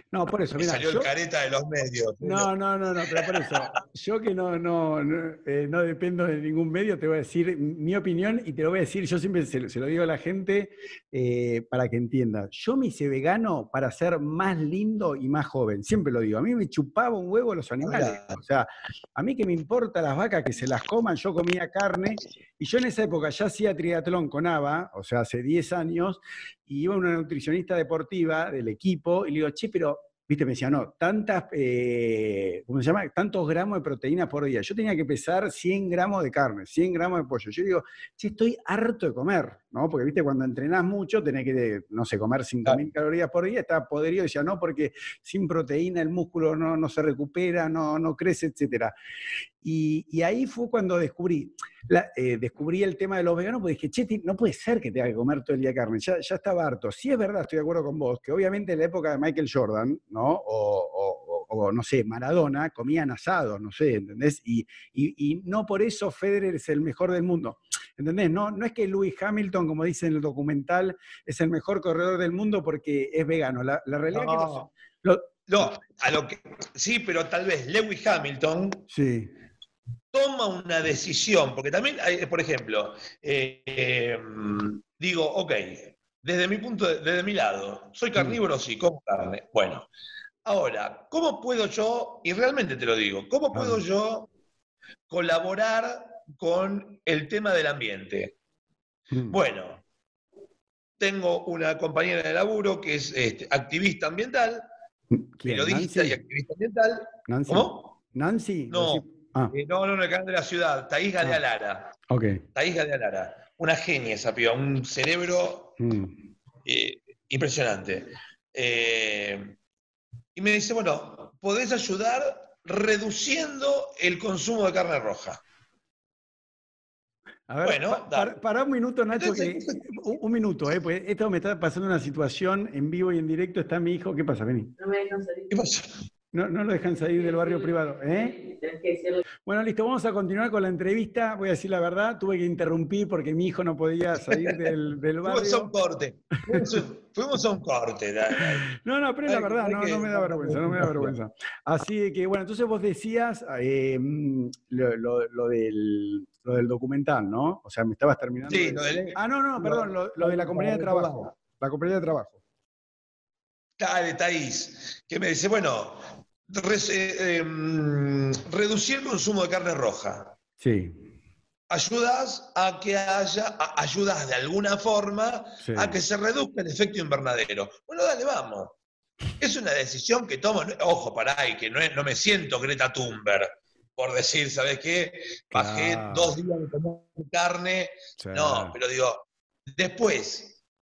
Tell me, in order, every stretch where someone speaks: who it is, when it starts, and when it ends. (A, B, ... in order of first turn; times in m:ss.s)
0:00.1-0:01.1 A
0:00.6-0:02.5 B
0:02.2-0:48.9 A
0:03.1-0:03.8 B
0:17.8-0:18.4 B
0:49.6-1:15.3 A
1:14.1-1:14.7 B
1:15.5-1:18.9 B
1:18.9-1:19.3 A
1:20.1-1:29.9 B
1:30.4-1:34.3 B
1:33.5-1:33.8 A
1:35.1-1:38.3 B
1:39.1-1:39.4 A
1:39.3-1:39.8 B
1:41.0-1:44.7 B
1:45.1-1:46.2 A
1:45.4-1:47.9 B
1:47.3-1:49.5 A
1:48.7-1:51.9 B
1:52.1-1:52.4 A
1:52.5-1:55.8 B
1:55.8-1:56.1 A
1:56.6-1:59.5 B
2:00.3-2:05.4 B
2:07.5-2:14.7 A
2:07.6-2:08.3 B
2:09.1-2:10.1 B
2:14.8-2:15.5 C
2:15.5-2:16.0 B
2:16.3-2:18.3 A
2:17.2-2:19.2 C
2:19.4-2:25.7 A
2:24.3-2:24.6 B
2:25.2-2:28.7 B
2:28.6-2:42.4 A
2:29.2-2:31.2 B
2:38.4-2:41.3 B
2:43.8-2:50.3 B
2:50.6-2:51.0 A
2:51.7-2:58.7 B
2:55.6-2:56.0 A
2:59.4-3:09.2 B
3:05.5-3:06.4 A
3:08.2-3:08.8 A
3:09.8-3:10.6 B